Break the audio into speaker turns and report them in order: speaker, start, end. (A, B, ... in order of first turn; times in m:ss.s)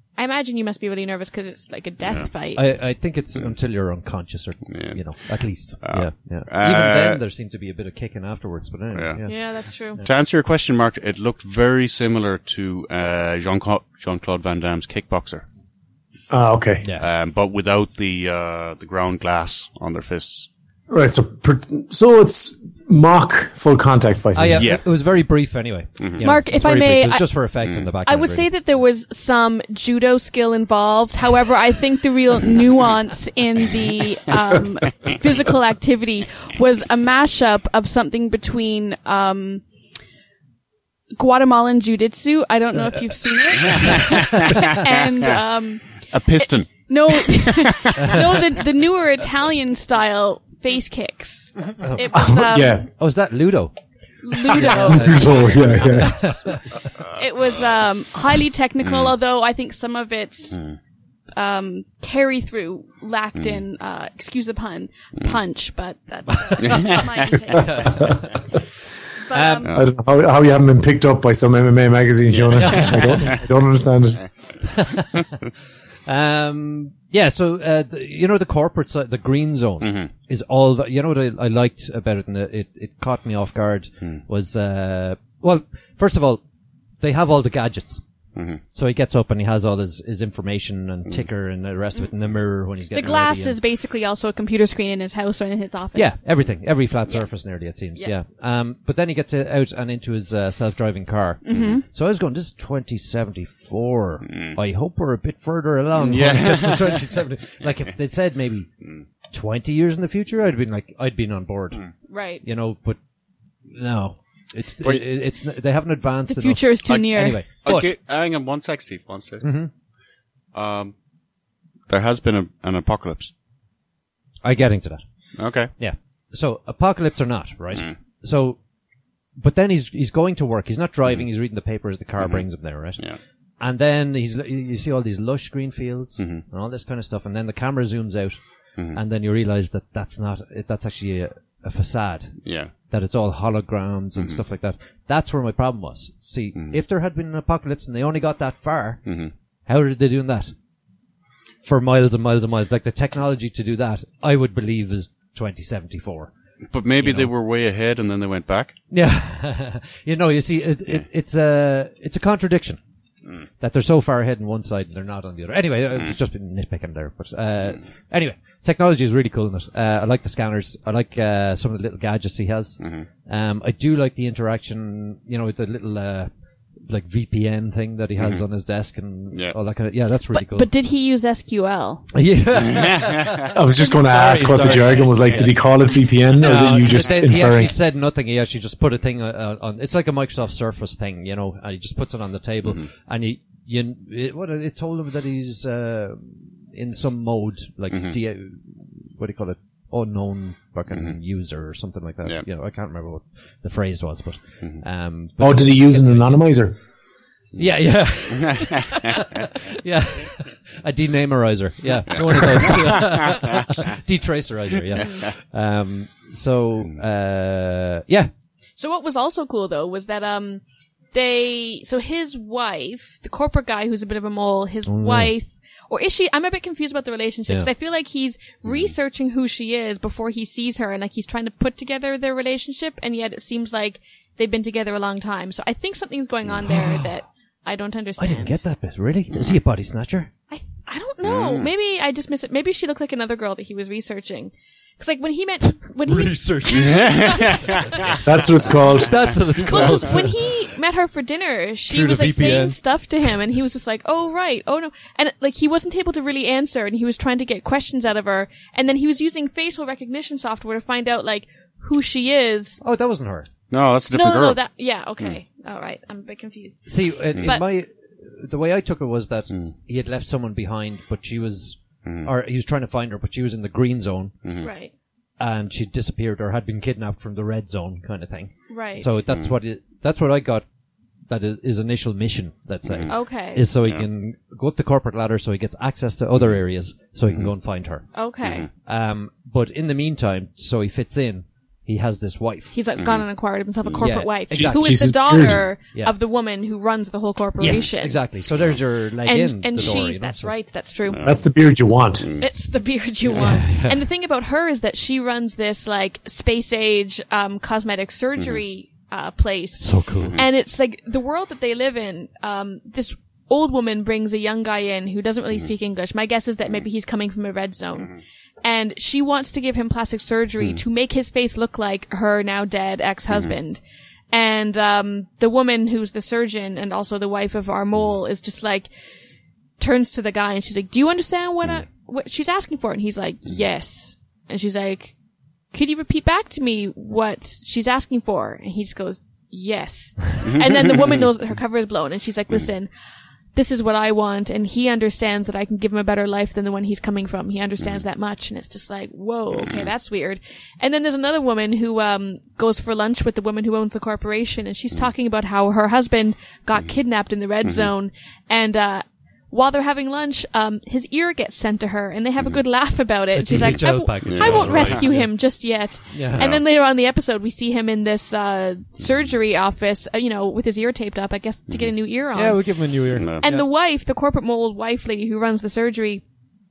0:00.2-0:02.6 A
0:02.6-0:10.0 B
0:04.7-0:05.0 C
0:05.8-0:07.2 C
0:08.9-0:09.3 C
0:09.3-0:10.0 A
0:10.0-0:15.5 C
0:16.3-0:16.9 D
0:17.0-0:20.5 C
0:20.9-0:24.7 D
0:24.3-0:28.5 B
0:24.6-0:24.8 C
0:26.0-0:26.3 C
0:26.2-0:27.3 A
0:28.0-0:39.6 A
0:41.2-0:52.8 A
0:43.7-0:45.3 C
0:46.1-0:48.3 C
0:51.8-0:52.1 B
0:52.1-0:52.9 D
0:53.0-0:53.7 B
0:54.2-0:56.5 A
0:54.3-0:56.8 B
0:54.7-0:56.3 D
0:57.1-1:00.6 A
0:58.8-0:59.1 C
1:01.3-1:08.2 A
1:06.4-1:07.0 B
1:06.6-1:07.4 C
1:07.6-1:08.2 B
1:09.2-1:09.7 A
1:09.3-1:09.7 B
1:09.7-1:14.2 D
1:12.5-1:13.4 B
1:14.6-1:15.3 B
1:16.1-1:26.4 B
1:19.8-1:20.1 C
1:27.0-1:28.0 B
1:28.4-1:28.6 C
1:28.7-1:33.6 B
1:32.9-1:36.2 A
1:36.0-1:48.7 B
1:41.4-1:41.8 A
1:41.5-1:41.8 C
1:44.2-1:44.6 C
1:46.0-1:47.1 C
1:49.3-1:51.9 B
1:52.1-1:52.4 A
1:52.4-1:53.0 B
1:53.7-1:57.9 B
1:56.3-1:57.4 A
1:57.6-1:59.4 C
1:59.4-1:59.7 B
2:00.5-2:00.9 C
2:01.9-2:03.3 C
2:04.4-2:05.0 B
2:05.4-2:05.7 C
2:05.8-2:08.6 B
2:09.4-2:13.0 B
2:13.6-2:18.4 B
2:16.2-2:16.4 C
2:18.9-2:29.1 B
2:22.4-2:22.7 C
2:29.1-2:29.3 C
2:29.7-2:30.5 B
2:31.6-2:36.3 B
2:36.7-2:38.8 C
2:37.0-2:37.3 B
2:38.9-2:42.8 B
2:43.6-2:56.3 B
2:52.8-2:53.1 C
2:56.9-3:00.7 B
2:58.2-2:58.4 C
3:00.3-3:02.1 A
3:02.1-3:05.6 B
3:02.6-3:03.6 C
3:03.5-3:07.8 D
3:06.3-3:26.4 B
3:17.9-3:18.2 C
3:25.4-3:26.8 D
3:27.6-3:38.3 B
3:28.4-3:29.0 C
3:32.1-3:33.4 C
3:38.8-3:40.6 A
3:41.1-3:58.6 A
3:44.9-3:45.3 B
3:48.6-3:49.0 C
3:56.7-3:57.1 B
3:58.2-4:00.3 B
4:00.5-4:08.0 A
4:01.2-4:01.7 C
4:06.0-4:07.8 B
4:06.7-4:08.2 C
4:08.2-4:09.2 D
4:08.8-4:10.6 B
4:09.6-4:22.8 A
4:11.9-4:12.8 B
4:22.8-4:23.5 B
4:23.7-4:24.6 C
4:24.1-4:26.9 A
4:26.9-4:34.4 B
4:32.0-4:32.3 C
4:34.4-4:34.7 C
4:34.6-4:34.9 A
4:35.4-4:40.6 B
4:38.7-4:39.1 A
4:39.3-4:39.5 C
4:41.3-4:48.1 B
4:42.9-4:43.2 C
4:43.1-4:43.6 A
4:48.1-4:48.7 A
4:48.4-4:48.7 C
4:48.8-4:52.8 B
4:52.7-4:58.2 A
4:53.0-4:53.2 C
4:54.0-4:55.3 B
4:54.5-4:55.6 D
4:57.6-5:00.5 B
4:59.2-5:01.2 A
5:01.1-5:01.4 C
5:01.2-5:02.3 D
5:02.2-5:02.5 C
5:02.4-5:23.8 A
5:03.3-5:04.0 B
5:09.8-5:10.4 B
5:10.2-5:10.4 C
5:24.3-5:28.9 A
5:29.8-5:35.1 A
5:35.7-5:42.9 A
5:40.4-5:41.3 C
5:43.5-6:12.6 A
5:57.6-5:57.9 C
6:03.3-6:05.4 B
6:03.6-6:05.1 C
6:06.1-6:06.5 B
6:06.4-6:06.6 C
6:12.3-6:13.7 B
6:13.1-6:13.4 C
6:13.4-6:16.2 A